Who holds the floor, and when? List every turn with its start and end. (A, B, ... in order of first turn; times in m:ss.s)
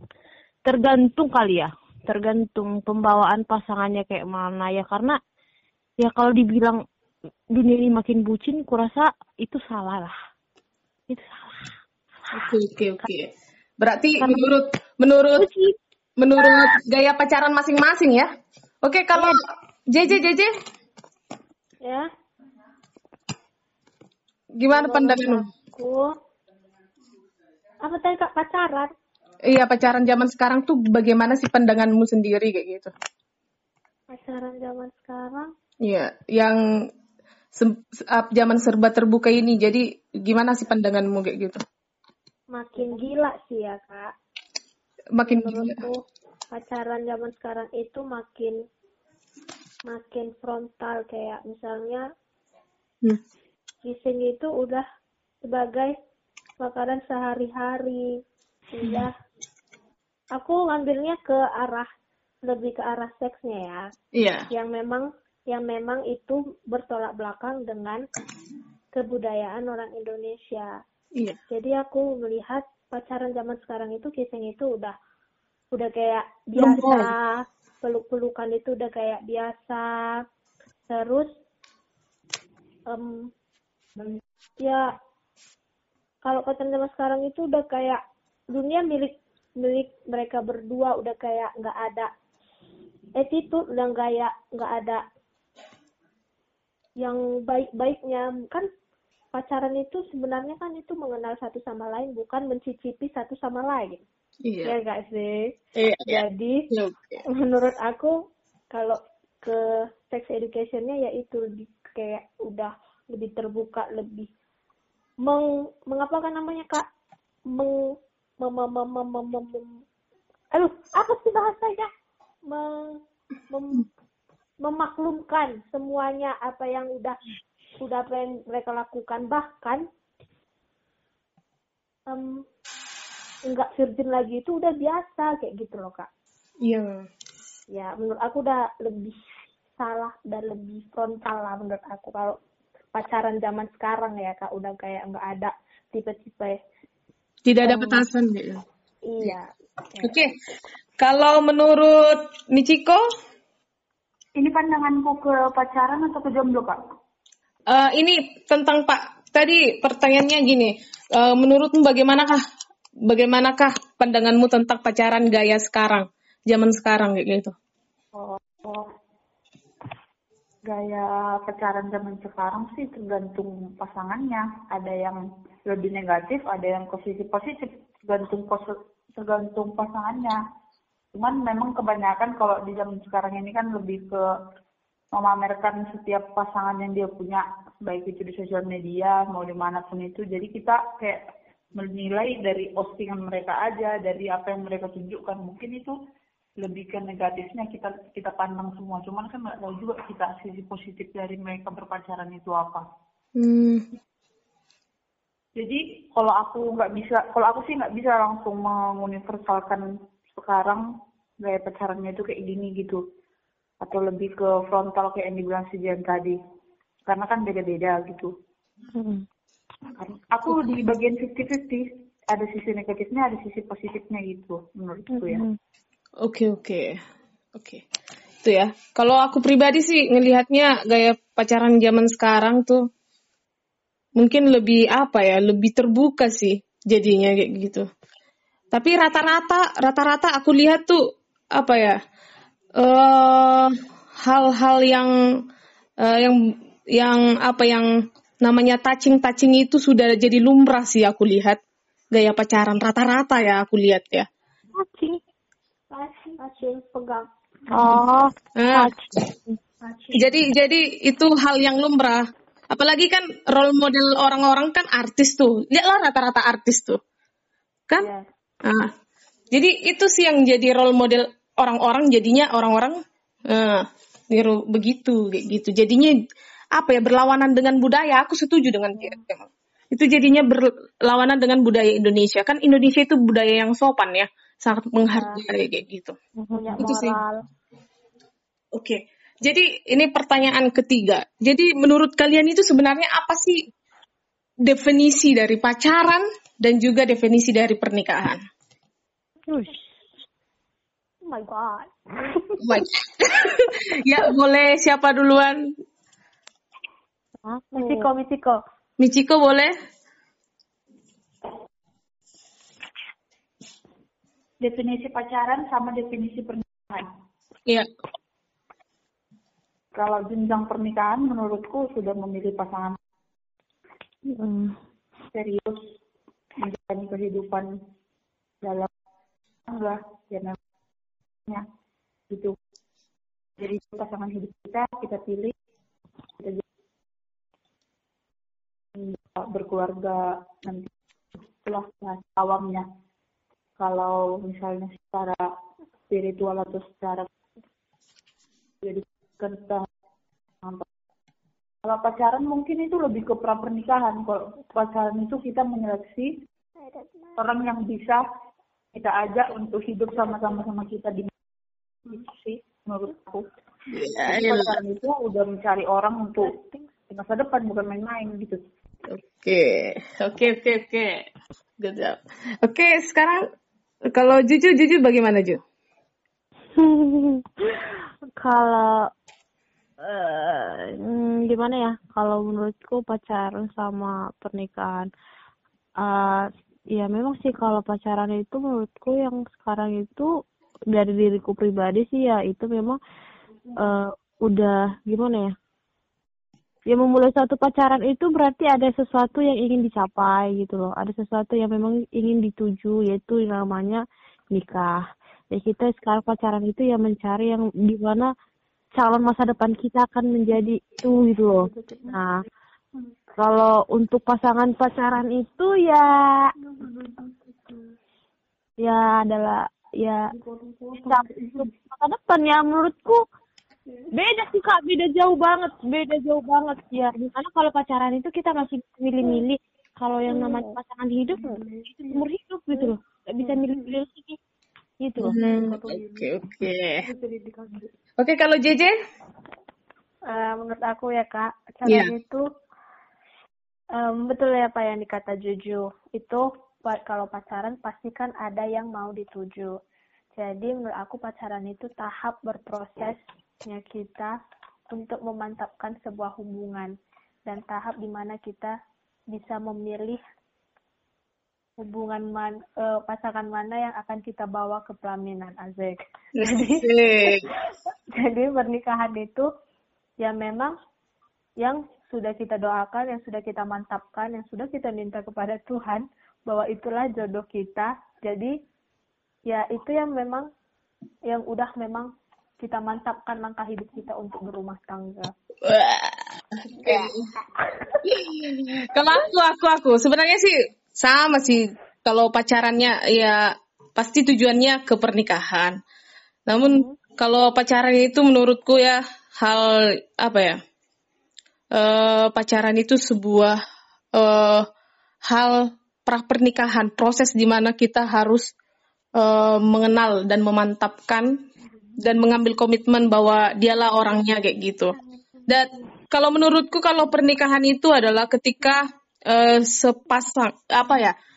0:00.6-0:05.2 A
0:06.0-0:06.8 A
0:07.5-0:10.1 A
0:11.1-0:11.7 A
0:12.3-0:15.4 B
0:14.2-0:14.5 A
0:15.4-0:15.8 A
0:16.2-0:18.3 B
0:16.4-0:16.7 A
0:18.8-0:19.4 B
0:19.9-0:20.5 B
0:21.8-0:22.1 C
0:24.6-0:25.4 B
0:24.7-0:26.1 C
0:27.8-0:28.9 C
0:29.5-0:32.9 B
0:34.1-0:35.5 C
0:35.8-0:36.6 B
0:37.5-0:41.6 B
0:42.5-0:44.1 C
0:45.2-0:45.8 B
0:45.2-0:46.0 C
0:46.5-0:48.6 C
0:49.9-0:52.0 C
0:53.8-0:54.8 C
0:55.4-0:55.9 C
0:56.6-0:58.1 C
0:58.7-0:59.1 C
1:00.3-1:01.9 C
1:02.4-1:03.8 C
1:04.1-1:04.5 B
1:04.5-1:08.0 C
1:08.9-1:10.7 C
1:11.5-1:15.0 C
1:15.7-1:20.2 C
1:16.6-1:17.1 B
1:20.9-1:21.3 C
1:22.9-1:23.3 C
1:24.6-1:24.9 C
1:26.2-1:28.0 C
1:28.5-1:32.1 C
1:33.2-1:35.0 C
1:37.0-1:38.6 C
1:39.3-1:44.0 C
1:44.4-1:44.8 B
1:44.6-1:45.5 C
1:45.8-1:47.2 B
1:46.0-1:46.6 C
1:47.3-1:48.2 C
1:48.7-1:54.3 C
1:55.2-1:56.8 C
1:57.5-1:57.8 C
1:58.4-1:59.7 C
2:00.7-2:01.8 C
2:00.8-2:01.6 A
2:02.5-2:03.0 C
2:03.5-2:03.9 C
2:04.6-2:07.2 C
2:07.8-2:09.8 C
2:12.1-2:12.4 C
2:13.4-2:16.1 C
2:16.6-2:17.1 B
2:17.7-2:19.2 C
2:19.8-2:22.4 C
2:22.9-2:26.6 C
2:27.4-2:28.6 B
2:27.6-2:28.0 A
2:29.1-2:30.2 C
2:30.0-2:30.3 B
2:31.0-2:33.0 B
2:34.4-2:36.8 D
2:37.7-2:42.4 B
2:43.1-2:47.5 B
2:48.1-2:48.9 D
2:50.7-3:00.4 D
3:01.1-3:04.2 D
3:05.1-3:11.2 D
3:11.7-3:15.9 D
3:16.6-3:22.8 D
3:23.4-3:23.8 B
3:25.6-3:30.8 D
3:31.4-3:33.0 D
3:33.8-3:36.4 D
3:37.1-3:38.3 D
3:38.9-3:39.2 A
3:40.0-3:45.4 D
3:45.2-3:45.6 A
3:46.2-3:47.0 B
3:47.5-3:47.8 B
3:48.4-3:52.8 B
3:54.2-3:57.8 B
3:58.7-4:01.0 B
4:01.6-4:02.0 B
4:02.8-4:05.1 B
4:06.0-4:06.4 B
4:06.9-4:07.8 B
4:08.4-4:11.6 B
4:12.1-4:14.3 B
4:14.8-4:15.2 A
4:15.9-4:17.9 C
4:17.7-4:19.6 A
4:18.6-4:18.9 B
4:19.8-4:20.3 C
4:20.1-4:27.0 B
4:28.0-4:28.2 C
4:28.6-4:28.9 B
4:29.5-4:33.0 B
4:33.5-4:36.1 B
4:36.8-4:46.2 B
4:45.1-4:45.6 C
4:46.4-4:46.9 A
4:46.6-4:47.4 C
4:46.8-4:47.1 B
4:48.8-4:53.6 B
4:54.6-4:58.4 B
4:59.5-4:59.8 A
5:01.2-5:02.8 C
5:02.6-5:05.6 B
5:07.4-5:08.1 A
5:07.8-5:08.6 C
5:09.0-5:09.7 B
5:14.6-5:17.1 D
5:19.9-5:23.0 D
5:24.2-5:24.8 A
5:25.3-5:25.9 D
5:26.6-5:27.7 D
5:28.6-5:28.9 D
5:29.7-5:30.6 D
5:32.3-5:32.6 D
5:33.6-5:35.5 D
5:38.9-5:42.8 D
5:43.8-5:45.5 D
5:46.1-5:47.3 D
5:48.8-5:49.9 D
5:51.8-5:56.3 D
5:56.9-5:57.4 C
5:57.4-5:58.2 D
5:58.9-6:01.3 D
6:02.1-6:03.4 D
6:03.9-6:04.8 B
6:04.2-6:06.6 D
6:06.4-6:06.9 C
6:07.1-6:08.6 D
6:09.1-6:11.2 B
6:11.8-6:13.4 B
6:14.1-6:15.6 B
6:16.8-6:19.0 A
6:20.0-6:25.1 A
6:26.0-6:30.3 A
6:30.9-6:33.0 A
6:33.8-6:35.5 A
6:36.9-6:44.0 A
6:44.5-6:45.0 A
6:45.5-6:48.3 A
6:49.0-6:52.4 A
6:51.6-6:52.2 C
6:53.4-6:56.1 A
6:56.6-6:57.9 C
6:58.8-7:00.3 A
7:00.3-7:01.7 C
7:01.0-7:03.2 A
7:04.2-7:14.4 A
7:10.3-7:10.7 C
7:11.3-7:12.2 C
7:12.7-7:13.8 C
7:15.0-7:15.4 A
7:15.2-7:17.0 B
7:15.4-7:17.9 C
7:18.2-7:18.9 B
7:20.3-7:22.4 C
7:21.8-7:22.1 B
7:24.0-7:29.7 C
7:30.4-7:34.3 C
7:34.9-7:36.9 C
7:37.4-7:38.7 C
7:39.3-7:40.2 C
7:41.8-7:47.3 C
7:46.4-7:47.5 B
7:48.1-7:49.5 C
7:50.2-7:50.8 C
7:51.6-7:58.5 C
7:59.5-8:00.5 C
8:01.3-8:05.3 C
8:05.6-8:07.2 B
8:06.8-8:08.0 C
8:08.0-8:15.8 B
8:16.5-8:20.6 B
8:16.6-8:16.9 A
8:21.7-8:23.6 B
8:24.1-8:24.7 B
8:25.3-8:28.5 B
8:29.2-8:31.3 B
8:32.0-8:35.0 B
8:35.5-8:41.1 B